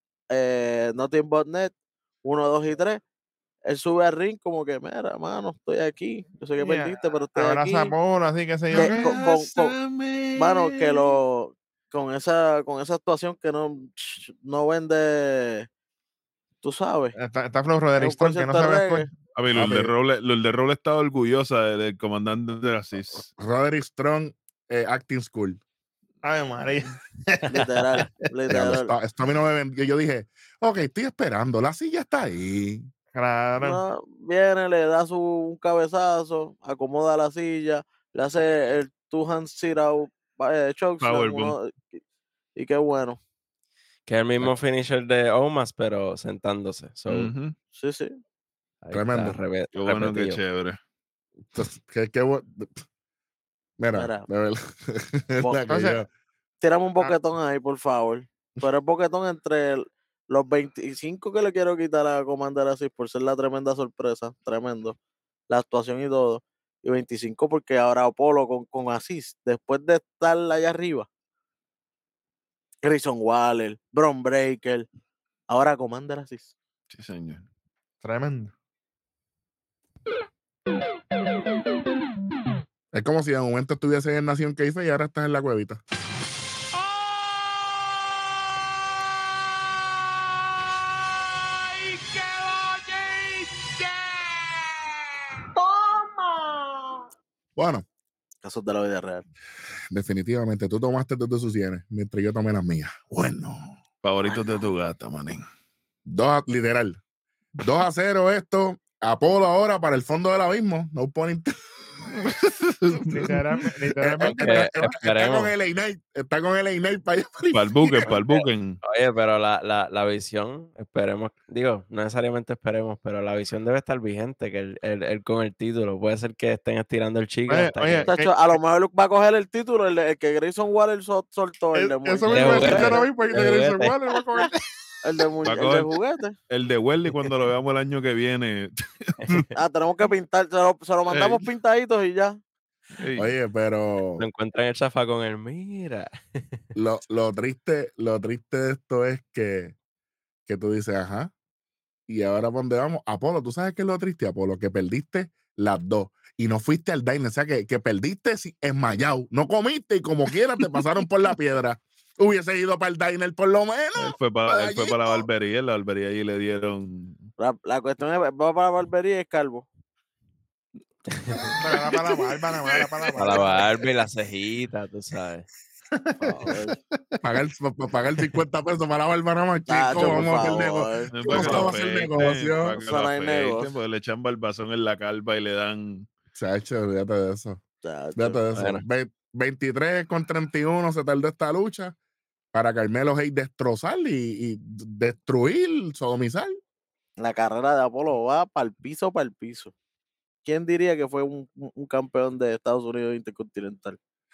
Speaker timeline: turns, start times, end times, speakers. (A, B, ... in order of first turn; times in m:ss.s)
0:00.3-0:01.7 A
0:02.2-0:03.0 A
0:03.6-0:07.9 A
0:06.6-0:09.1 B
0:08.7-0:11.2 C
0:08.7-0:09.8 A
0:10.4-0:15.7 A
0:16.6-0:17.1 A
0:17.1-0:19.1 B
0:18.0-0:19.0 A
0:19.3-0:23.2 C
0:19.5-0:19.9 D
0:23.3-0:25.6 D
0:26.2-0:28.3 B
0:27.5-0:28.9 A
0:28.5-0:32.9 D
0:33.1-0:33.8 B
0:33.6-0:42.0 A
0:41.0-0:41.5 C
0:42.6-0:43.2 A
0:44.1-0:47.3 E
0:47.1-0:47.5 C
0:47.8-0:48.1 A
0:48.8-0:50.4 E
0:48.9-0:49.4 D
0:49.7-0:50.8 C
0:51.5-0:52.8 D
0:53.8-0:56.1 D
0:53.9-0:54.3 A
0:55.6-0:56.0 B
0:56.6-1:05.0 A
1:05.5-1:11.1 A
1:12.8-1:14.9 A
1:15.5-1:16.5 A
1:16.9-1:17.4 C
1:18.0-1:18.5 B
1:22.9-1:25.8 D
1:37.6-1:37.8 D
1:38.4-1:39.2 A
1:39.9-1:43.8 D
1:44.0-1:45.4 C
1:46.0-1:47.0 D
1:47.6-1:51.6 D
1:52.4-1:53.3 C
1:53.1-1:54.6 B
1:54.0-1:58.2 D
1:54.2-1:55.5 E
1:57.5-1:58.8 C
1:58.8-2:08.1 E
2:07.5-2:08.4 B
2:08.1-2:13.4 A
2:11.7-2:14.6 B
2:12.3-2:13.9 E
2:15.0-2:16.4 A
2:15.4-2:15.9 C
2:16.5-2:19.5 C
2:19.5-2:22.4 A
2:21.1-2:21.4 C
2:23.0-2:23.3 C
2:23.2-2:24.2 D
2:24.2-2:26.6 E
2:26.7-2:29.8 D
2:30.5-2:31.3 D
2:32.1-2:45.2 D
2:44.0-2:47.3 C
2:47.4-2:49.6 A
2:51.6-2:53.8 B
2:53.2-2:55.5 E
2:55.9-2:56.6 B
2:56.2-2:56.8 A
2:57.2-3:02.8 D
2:59.7-3:01.8 A
3:00.0-3:00.2 C
3:01.1-3:06.1 C
3:02.8-3:03.7 A
3:06.4-3:07.6 D
3:07.8-3:08.4 A
3:08.1-3:11.9 D
3:08.5-3:08.8 E
3:12.5-3:16.6 D
3:17.2-3:19.7 A
3:20.4-3:24.0 A